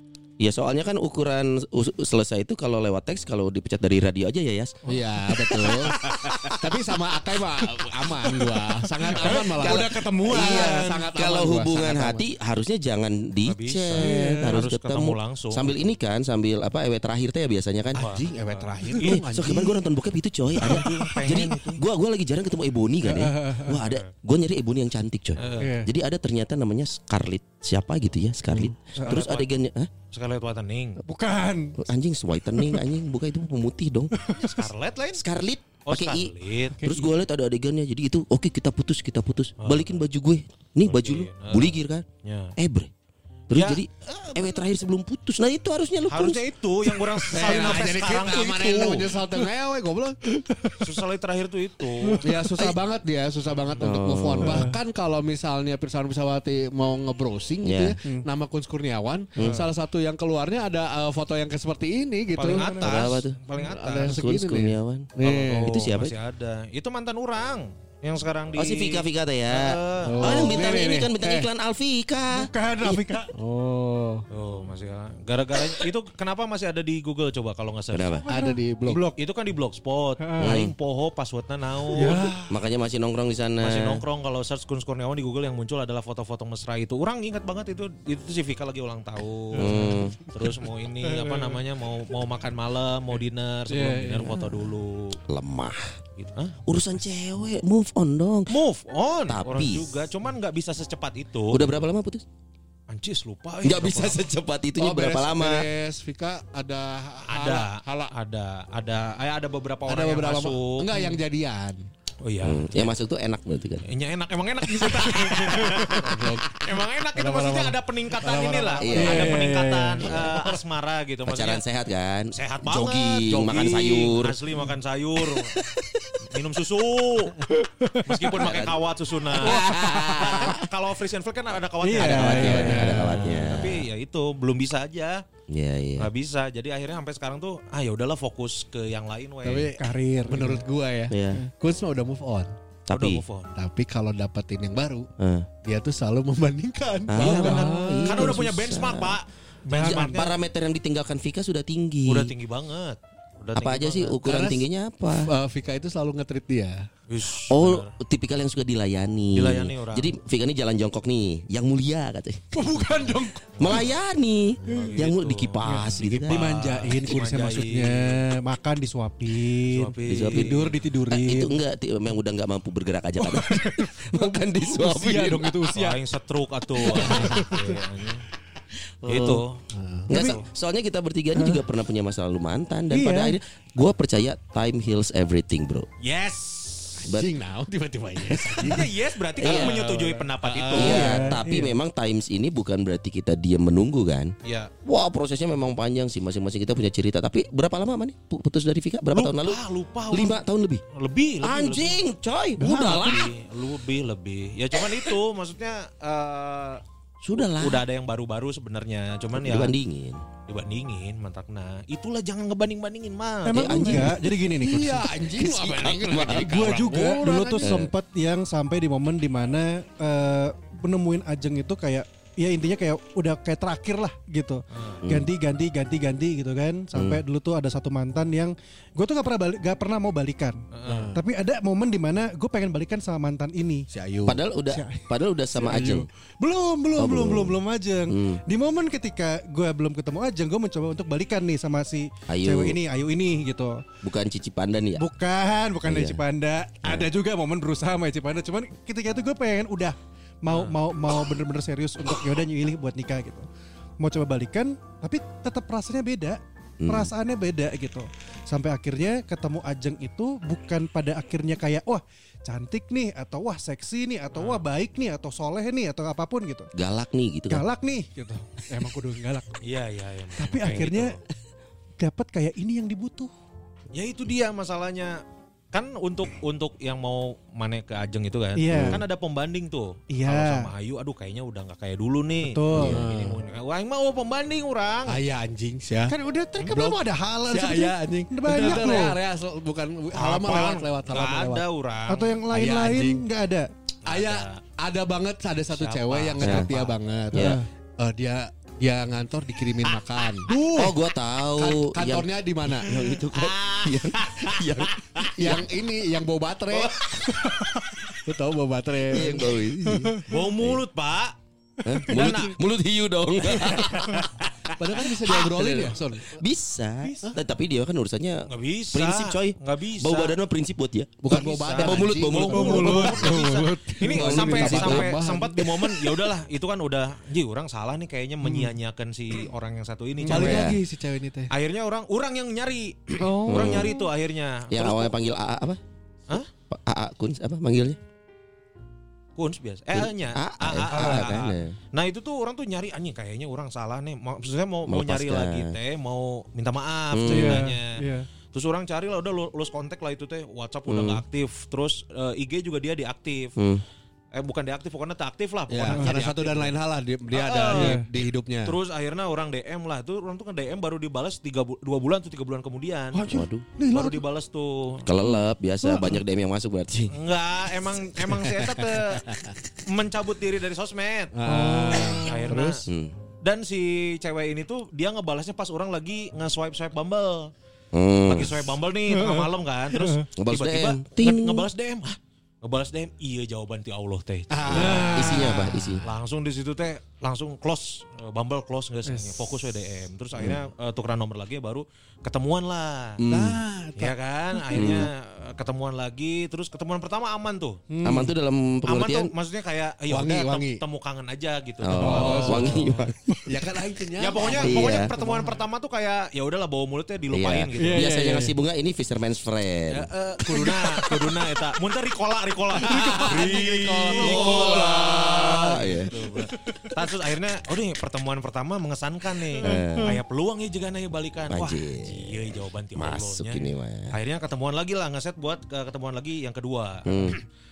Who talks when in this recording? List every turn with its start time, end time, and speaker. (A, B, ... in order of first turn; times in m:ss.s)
0:00.4-0:04.8 A
0:04.9-0:05.7 B
0:04.9-0:06.0 C
0:05.3-0:06.6 A
0:06.6-0:12.2 C
0:08.1-0:11.0 B
0:09.2-0:18.0 A
0:13.4-0:15.8 D
0:14.0-0:14.6 B
0:18.0-0:19.2 D
0:18.0-0:19.8 C
0:19.0-0:29.9 A
0:20.5-0:21.8 D
0:20.6-0:21.5 B
0:23.0-0:23.8 B
0:23.7-0:24.0 D
0:25.4-0:25.7 D
0:25.6-0:25.9 B
0:29.0-0:29.2 B
0:29.0-0:29.5 D
0:30.1-0:31.0 D
0:31.0-0:31.8 B
0:31.8-0:34.2 A
0:34.1-0:34.6 B
0:34.2-0:35.2 D
0:35.1-0:42.0 A
0:35.9-0:36.8 D
0:36.8-0:37.1 B
0:39.6-0:40.0 D
0:40.8-0:42.5 D
0:42.6-0:42.9 A
0:43.5-0:46.4 A
0:43.5-0:44.6 D
0:46.1-0:49.1 D
0:47.3-0:50.2 C
0:50.3-0:50.9 B
0:50.8-0:52.3 D
0:52.0-0:52.8 B
0:52.2-1:02.6 C
0:53.5-0:53.9 D
0:53.8-0:54.7 A
0:54.4-0:54.8 B
0:57.6-0:58.0 A
0:59.4-0:59.6 A
0:59.4-0:59.6 B
1:02.3-1:04.2 D
1:02.4-1:02.9 B
1:02.8-1:03.4 A
1:03.6-1:05.8 C
1:03.9-1:05.1 A
1:05.2-1:10.4 D
1:05.6-1:06.1 A
1:08.5-1:13.2 A
1:10.0-1:10.8 C
1:10.2-1:11.5 B
1:12.3-1:13.3 B
1:13.3-1:14.2 C
1:14.3-1:18.2 D
1:17.9-1:18.2 A
1:18.2-1:19.2 B
1:18.3-1:19.0 C
1:19.2-1:22.3 D
1:20.2-1:20.6 B
1:20.4-1:20.7 A
1:21.9-1:22.5 B
1:22.5-1:24.0 A
1:23.6-1:35.2 D
1:29.5-1:31.6 B
1:29.6-1:30.2 A
1:33.7-1:34.6 B
1:35.3-1:35.9 A
1:36.2-1:36.5 D
1:36.6-1:38.5 A
1:38.5-1:41.8 D
1:39.3-1:39.9 A
1:41.5-1:42.2 A
1:42.9-1:44.3 D
1:43.6-1:45.7 A
1:44.8-1:48.1 C
1:47.3-1:50.9 D
1:49.9-1:51.8 C
1:52.2-1:52.9 D
1:52.4-1:53.9 A
1:53.9-2:01.6 D
1:54.8-1:55.4 A
1:55.6-1:55.9 B
1:55.9-1:59.1 C
1:58.8-1:59.4 A
1:58.9-2:00.5 B
2:00.0-2:00.4 A
2:01.2-2:04.4 A
2:02.3-2:05.6 D
2:06.2-2:07.5 D
2:07.4-2:08.3 B
2:08.0-2:15.2 D
2:08.4-2:08.8 A
2:09.4-2:10.6 A
2:11.8-2:13.5 B
2:12.0-2:13.8 A
2:12.5-2:13.4 C
2:15.5-2:16.1 A
2:16.0-2:19.7 D
2:19.4-2:22.5 C
2:19.8-2:20.6 B
2:21.1-2:21.4 A
2:22.9-2:23.2 A
2:22.9-2:23.5 D
2:23.6-2:25.1 C
2:25.2-2:25.5 A
2:25.6-2:28.4 C
2:27.1-2:29.2 A
2:27.1-2:30.4 D
2:29.7-2:30.2 B
2:29.7-2:32.3 A
2:32.0-2:34.5 D
2:33.5-2:35.3 A
2:35.2-2:36.9 C
2:37.1-2:37.9 D
2:37.5-2:42.4 A
2:39.3-2:40.1 D
2:42.5-2:43.7 B
2:42.8-2:43.9 D
2:43.6-2:46.4 A
2:44.6-2:48.2 D
2:45.6-2:51.6 B
2:49.6-2:50.8 D
2:50.1-2:55.5 A
2:53.2-2:56.0 B
2:55.7-2:58.2 D
2:56.9-2:57.8 B
2:59.0-2:59.4 A
2:59.1-3:00.4 D
2:59.7-3:00.1 C
3:00.1-3:05.9 A
3:00.1-3:00.4 B
3:01.4-3:01.6 B
3:02.9-3:03.4 B
3:06.0-3:07.1 D
3:07.0-3:08.9 C
3:08.3-3:08.8 A
3:08.4-3:11.3 D
3:09.4-3:09.8 A
3:09.4-3:11.1 C
3:10.7-3:14.3 A
3:10.8-3:11.7 B
3:14.4-3:14.7 D
3:14.8-3:19.6 A
3:19.1-3:20.4 D
3:20.1-3:20.8 A
3:20.9-3:22.0 D
3:21.4-3:23.3 A
3:22.6-3:23.1 B
3:22.6-3:26.8 D
3:27.2-3:27.8 A
3:27.3-3:29.7 D
3:29.3-3:30.2 A
3:30.5-3:34.2 D
3:33.4-3:35.1 B
3:33.5-3:34.2 A
3:34.6-3:37.8 C
3:35.4-3:36.5 A
3:35.4-3:37.2 D
3:36.4-3:50.6 B
3:37.6-3:37.9 A
3:44.7-3:45.0 D
3:45.0-3:45.3 A
3:46.9-3:47.2 A
3:50.7-3:51.1 D
3:50.8-3:51.2 C
3:51.1-3:53.9 B
3:53.9-3:54.4 C
3:54.3-3:56.1 A
3:54.7-4:03.8 B
3:57.0-3:57.6 A
3:58.1-3:58.4 A
4:02.3-4:02.8 A
4:04.0-4:05.0 A
4:05.0-4:13.5 B
4:05.9-4:06.2 A
4:10.5-4:10.8 D
4:14.0-4:26.7 B
4:16.8-4:17.1 A
4:24.3-4:24.6 D
4:26.8-4:27.6 A
4:27.5-4:29.6 B
4:29.6-4:31.2 D
4:30.4-4:31.2 B
4:32.0-4:33.3 B
4:33.9-4:35.2 D
4:35.7-4:45.2 D
4:38.6-4:39.0 B
4:38.7-4:39.0 C
4:40.1-4:40.7 B
4:42.4-4:43.0 B
4:42.8-4:43.4 C
4:45.0-4:51.6 C
4:46.1-4:49.2 B
4:50.1-4:52.4 D
4:52.1-4:53.7 B
4:52.5-4:53.2 C
4:54.0-4:54.6 D
4:54.0-5:00.5 C
4:55.8-4:56.9 D
4:56.4-4:56.8 A
4:57.3-4:57.6 A
4:57.3-4:57.6 B
5:00.5-5:01.0 B
5:00.7-5:05.6 A
5:01.6-5:02.9 C
5:02.8-5:05.5 D
5:05.4-5:07.0 C
5:06.7-5:07.5 A
5:07.5-5:07.8 B
5:08.2-5:09.6 C
5:09.1-5:10.8 A
5:10.3-5:11.3 D
5:11.8-5:23.3 A
5:11.9-5:12.3 B
5:12.0-5:12.6 D
5:13.5-5:14.2 D
5:14.8-5:16.4 C
5:17.0-5:17.3 B
5:18.5-5:20.4 D
5:21.2-5:23.2 C
5:21.3-5:30.8 D
5:22.5-5:24.8 B
5:24.1-5:25.1 A
5:24.2-5:25.8 C
5:30.2-5:30.5 B
5:30.3-5:31.5 C
5:30.3-5:30.8 A
5:31.5-5:35.1 D
5:33.2-5:33.5 B
5:33.5-5:33.8 C
5:33.5-5:33.9 A
5:34.7-5:35.8 A
5:36.3-5:38.0 A
5:39.4-5:48.0 D
5:39.9-5:41.8 A
5:40.9-5:41.3 B
5:44.9-5:45.8 A
5:47.1-5:47.6 A
5:47.3-5:48.3 B
5:48.5-5:53.6 D
5:50.9-5:51.2 A
5:53.6-5:53.8 A
5:54.3-5:56.7 D
5:55.7-5:58.8 C
5:57.3-5:58.0 D
5:57.7-5:58.0 B
5:58.6-6:03.2 D
6:03.1-6:04.2 B
6:03.3-6:03.6 A
6:03.9-6:05.0 D
6:05.0-6:07.1 A
6:07.1-6:09.2 D
6:09.2-6:09.5 C
6:09.8-6:11.3 D
6:11.3-6:12.8 C
6:11.4-6:12.3 B
6:12.1-6:12.8 D
6:12.8-6:13.1 A
6:13.4-6:17.5 D
6:17.9-6:18.5 A
6:18.3-6:33.2 D
6:19.1-6:19.5 B
6:20.4-6:21.7 A
6:24.5-6:26.0 C
6:24.7-6:26.0 A
6:24.7-6:25.8 B
6:29.1-6:29.5 B
6:33.2-6:33.6 A
6:33.3-6:34.2 C
6:34.0-6:37.8 D
6:34.7-6:35.1 A
6:37.9-6:38.3 B
6:38.0-6:39.3 A
6:38.8-6:43.1 D
6:40.1-6:40.8 C
6:41.8-6:43.1 A
6:42.0-6:43.5 B
6:42.0-6:42.8 C
6:43.4-6:45.0 C
6:44.2-6:48.0 D
6:44.6-6:45.1 A
6:45.1-6:45.5 B
6:47.3-6:50.1 A
6:47.8-6:48.6 B
6:49.9-7:07.4 D
6:50.5-6:51.2 B
6:52.8-6:54.2 B
6:52.8-6:55.4 C
6:54.2-6:56.1 A
6:59.6-7:00.2 A
6:59.6-7:00.0 B
7:01.5-7:04.1 A
7:07.1-7:07.4 A